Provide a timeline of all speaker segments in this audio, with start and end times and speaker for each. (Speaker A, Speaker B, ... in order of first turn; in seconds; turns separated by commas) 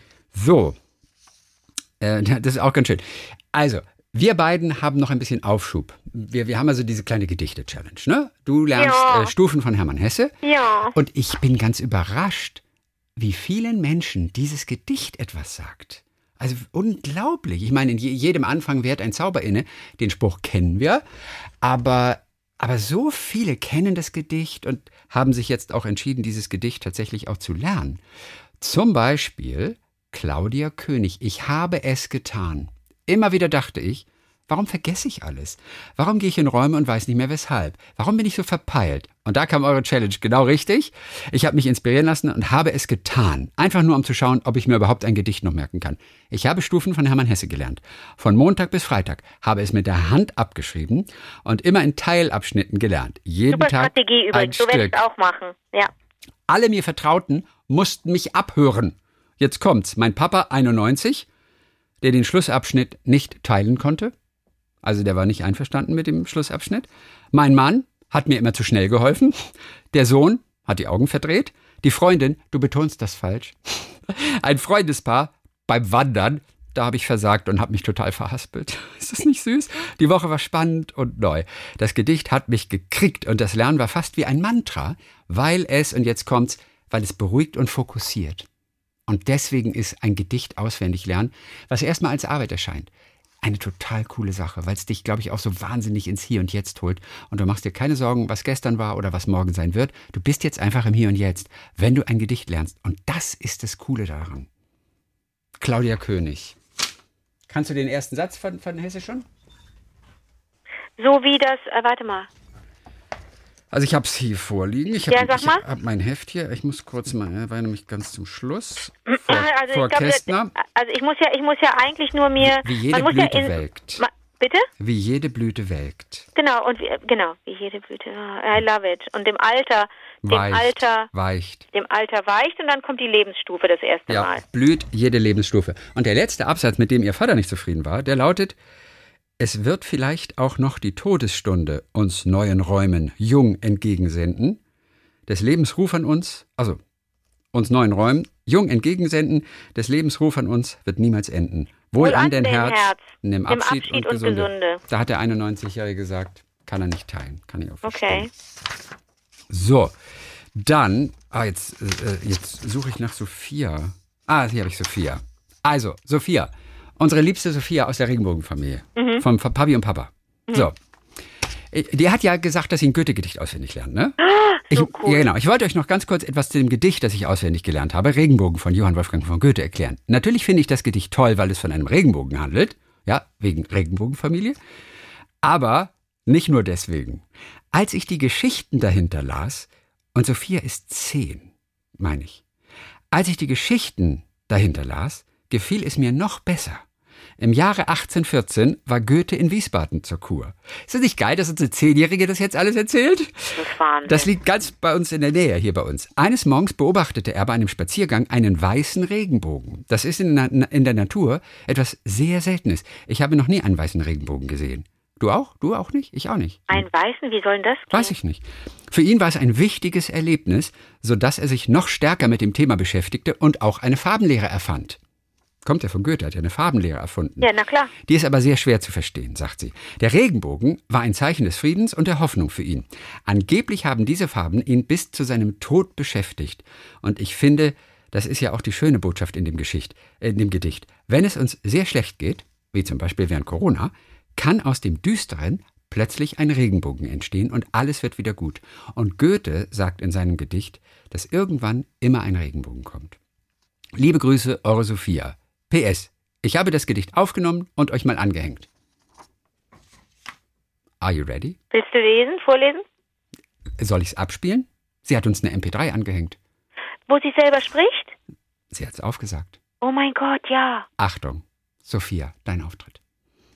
Speaker A: 0.3-0.8, Speaker A: 2.0-10.3, Speaker B: 8.8-9.3, Speaker B: 10.4-10.9, Speaker A: 10.9-12.6, Speaker A: 13.2-21.0, Speaker A: 21.6-28.0, Speaker A: 28.6-55.0, Speaker B: 53.5-55.9, Speaker A: 56.5-61.3, Speaker A: 62.0-64.1, Speaker A: 64.8-88.5, Speaker A: 89.1-92.9, Speaker A: 93.4-104.5, Speaker A: 105.6-106.6, Speaker A: 107.5-109.2, Speaker B: 111.0-112.3, Speaker A: 113.7-120.5, Speaker B: 115.1-115.6, Speaker B: 119.1-124.7, Speaker A: 122.4-124.0, Speaker A: 124.8-126.2, Speaker B: 126.3-131.1, Speaker A: 130.2-131.7, Speaker B: 131.7-134.4, Speaker A: 134.1-138.6, Speaker A: 139.4-144.6, Speaker A: 145.3-146.8, Speaker A: 147.5-158.3, Speaker B: 152.0-154.8, Speaker B: 157.8-158.3, Speaker A: 159.5-159.9, Speaker A: 160.6-170.7, Speaker B: 168.9-169.2, Speaker A: 171.7-174.2, Speaker B: 174.2-175.2, Speaker A: 174.7-184.6, Speaker A: 185.4-192.4, Speaker A: 193.1-196.8, Speaker A: 197.4-216.8, Speaker B: 203.6-204.3, Speaker B: 216.7-218.1, Speaker A: 217.9-225.0, Speaker A: 225.6-253.2, Speaker B: 227.4-227.9, Speaker A: 253.9-258.7, Speaker A: 261.0-261.6, Speaker B: 261.7-262.9, Speaker A: 263.8-266.4, Speaker B: 267.1-268.1, Speaker A: 268.7-269.6, Speaker B: 269.8-270.9, Speaker A: 271.0-273.0